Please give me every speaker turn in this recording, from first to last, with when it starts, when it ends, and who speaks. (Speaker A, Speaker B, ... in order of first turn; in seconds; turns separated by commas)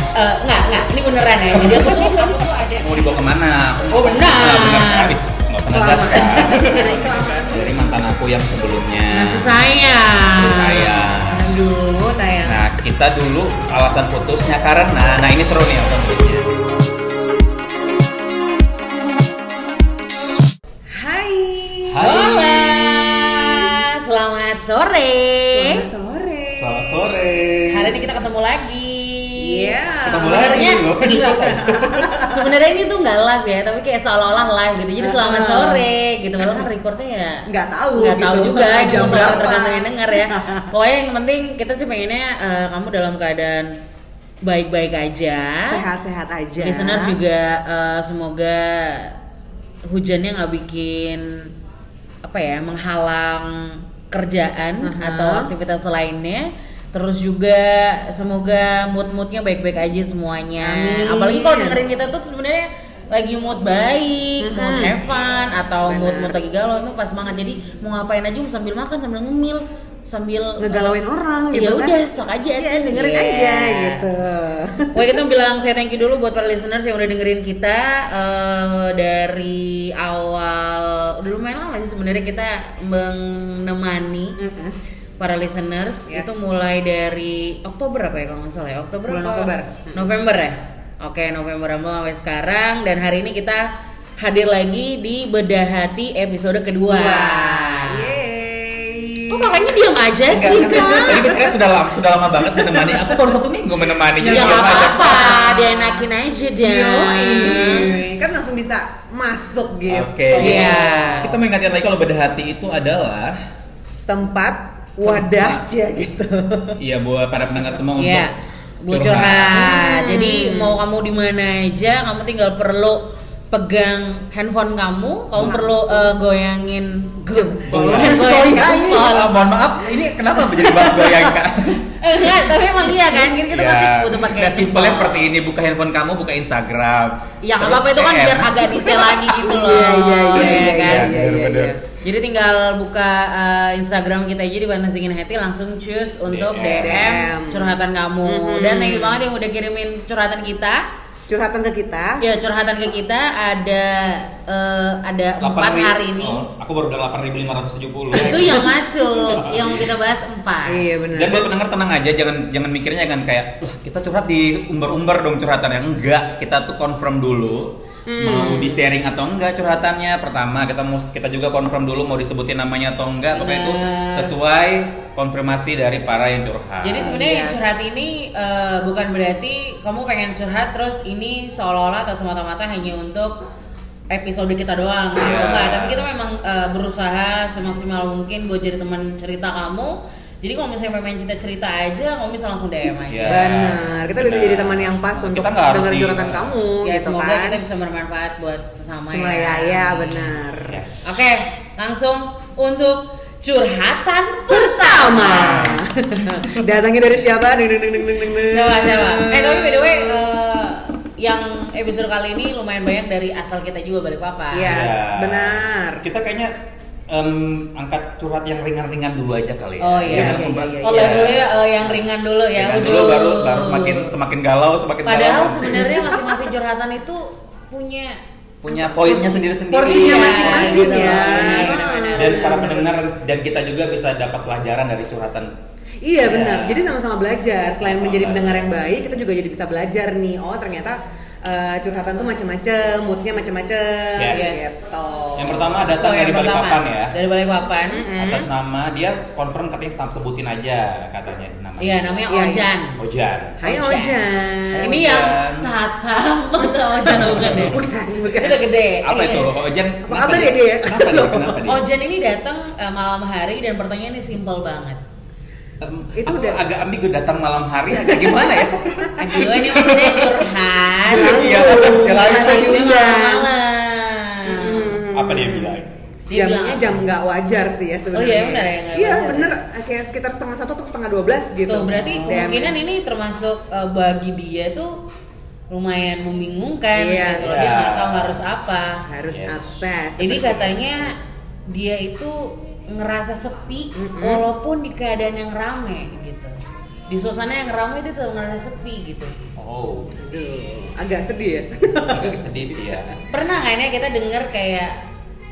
Speaker A: 0.1-3.2, Speaker B: 1.6-2.3, Speaker B: 2.8-9.7, Speaker A: 3.9-5.1, Speaker C: 5.7-8.0, Speaker A: 9.1-11.0, Speaker B: 10.2-11.5, Speaker C: 11.3-12.6, Speaker B: 12.4-16.5, Speaker C: 20.9-23.7, Speaker B: 21.9-23.0, Speaker A: 22.0-25.9, Speaker C: 25.5-26.9, Speaker B: 26.6-28.0, Speaker A: 27.7-31.4, Speaker C: 29.4-30.7, Speaker B: 30.1-32.2, Speaker C: 31.4-32.3, Speaker A: 32.2-43.8, Speaker C: 35.0-35.9, Speaker C: 37.5-40.7, Speaker A: 44.4-45.8, Speaker C: 45.7-47.2, Speaker A: 46.6-49.1, Speaker A: 49.9-51.5, Speaker A: 52.2-70.9, Speaker C: 54.8-55.5, Speaker C: 60.6-61.8, Speaker C: 64.4-65.0, Speaker B: 65.1-65.5, Speaker C: 65.8-66.4, Speaker C: 70.6-72.0, Speaker A: 71.5-74.0, Speaker C: 72.6-75.2, Speaker A: 74.9-84.4, Speaker C: 84.4-84.8, Speaker A: 85.2-93.7, Speaker C: 86.1-86.4, Speaker C: 89.1-90.0, Speaker A: 94.2-98.1, Speaker C: 96.9-99.7, Speaker A: 99.3-101.3, Speaker B: 100.3-105.4, Speaker C: 100.3-101.6, Speaker C: 102.4-103.2, Speaker C: 104.2-106.0, Speaker A: 104.3-107.9, Speaker C: 106.6-111.4, Speaker B: 109.9-113.4, Speaker A: 110.3-111.3, Speaker C: 114.1-116.8, Speaker B: 115.0-115.6, Speaker B: 116.8-118.3, Speaker A: 118.0-129.4, Speaker B: 118.9-119.7, Speaker C: 119.5-120.8, Speaker C: 125.4-126.1, Speaker C: 127.3-129.1, Speaker B: 127.7-131.8, Speaker C: 130.6-131.3, Speaker A: 131.9-135.3, Speaker B: 133.4-139.4, Speaker A: 137.4-141.2, Speaker C: 139.4-141.8, Speaker B: 140.3-141.8, Speaker A: 142.0-150.8, Speaker B: 146.3-147.2, Speaker C: 146.8-149.2, Speaker C: 151.3-152.2, Speaker A: 152.2-156.5, Speaker B: 155.4-159.9, Speaker A: 158.1-160.9, Speaker C: 160.7-161.5, Speaker B: 161.1-177.2, Speaker C: 168.1-168.8, Speaker A: 173.3-174.3, Speaker A: 176.8-183.4, Speaker C: 177.0-177.6, Speaker A: 184.1-193.5, Speaker B: 185.2-186.0, Speaker B: 193.1-196.6, Speaker C: 193.3-197.6, Speaker A: 196.8-200.4, Speaker C: 199.1-200.8, Speaker B: 200.7-201.3, Speaker A: 201.0-205.7, Speaker C: 204.5-210.2, Speaker B: 205.2-205.8, Speaker A: 208.4-214.7, Speaker C: 214.5-216.0, Speaker B: 214.7-216.6, Speaker B: 217.1-225.9, Speaker A: 219.8-224.1, Speaker C: 220.1-221.4, Speaker A: 225.1-228.2, Speaker B: 228.6-235.5, Speaker C: 228.7-233.0, Speaker A: 229.8-232.7, Speaker C: 236.0-246.0, Speaker B: 236.2-236.9, Speaker B: 237.8-238.9, Speaker B: 244.2-244.6, Speaker A: 244.3-244.6, Speaker B: 245.4-247.1, Speaker A: 245.9-248.1, Speaker C: 247.9-248.5, Speaker B: 248.2-252.2, Speaker A: 251.8-253.0, Speaker C: 252.3-252.7, Speaker B: 253.0-253.6, Speaker C: 253.6-255.0, Speaker A: 253.6-254.3, Speaker B: 254.8-255.7, Speaker A: 254.8-259.5, Speaker C: 256.6-258.6, Speaker B: 257.1-257.8, Speaker B: 259.0-261.8, Speaker C: 260.1-261.6, Speaker A: 261.7-265.0, Speaker B: 265.8-270.5, Speaker C: 266.2-266.6, Speaker C: 267.9-270.0, Speaker A: 269.2-275.0, Speaker B: 271.1-272.8, Speaker C: 271.1-273.5, Speaker C: 274.5-275.8, Speaker B: 275.1-275.9, Speaker A: 276.3-277.0, Speaker C: 276.3-282.8, Speaker A: 278.1-279.6, Speaker A: 281.7-285.0, Speaker B: 281.9-282.5, Speaker A: 285.7-289.0, Speaker C: 286.9-287.8, Speaker B: 287.4-288.4, Speaker C: 289.0-291.1, Speaker B: 289.3-289.8, Speaker A: 290.2-291.2, Speaker A: 291.7-296.6, Speaker C: 294.0-294.4, Speaker A: 297.1-299.4, Speaker B: 299.6-300.2, Speaker C: 300.1-303.0, Speaker B: 302.1-303.2, Speaker A: 303.3-305.0